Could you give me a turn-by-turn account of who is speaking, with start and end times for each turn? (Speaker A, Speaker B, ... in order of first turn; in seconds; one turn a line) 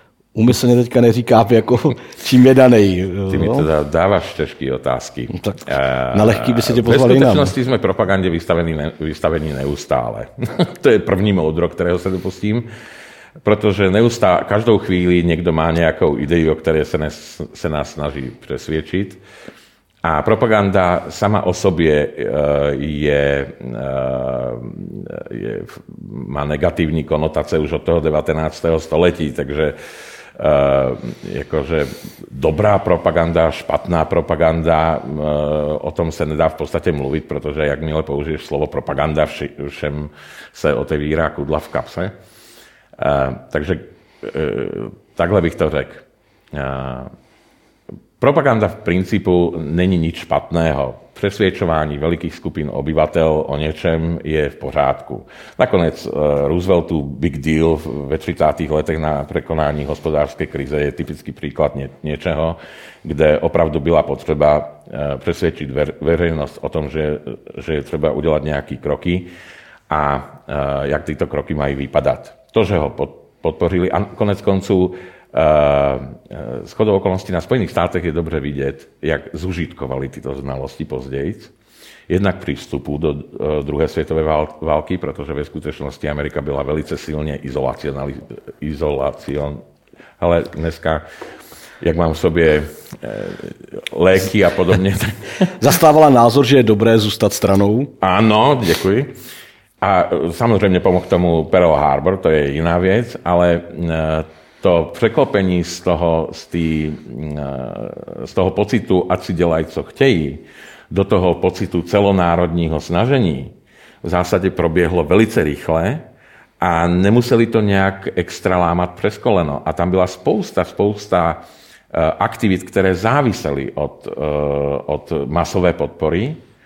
Speaker A: 0.3-3.7
Speaker B: 3.3-12.7
Speaker A: 5.3-7.5
Speaker B: 13.4-19.2
Speaker B: 20.0-29.8
Speaker B: 30.4-42.1
Speaker B: 43.0-47.1
Speaker B: 48.2-69.3
Speaker B: 69.9-81.5
Speaker B: 82.1-89.6
Speaker B: 90.2-91.0
Speaker B: 91.8-95.5
Speaker A: 95.6-97.9
Speaker B: 98.0-99.1
Speaker B: 99.8-116.0
Speaker B: 116.6-126.4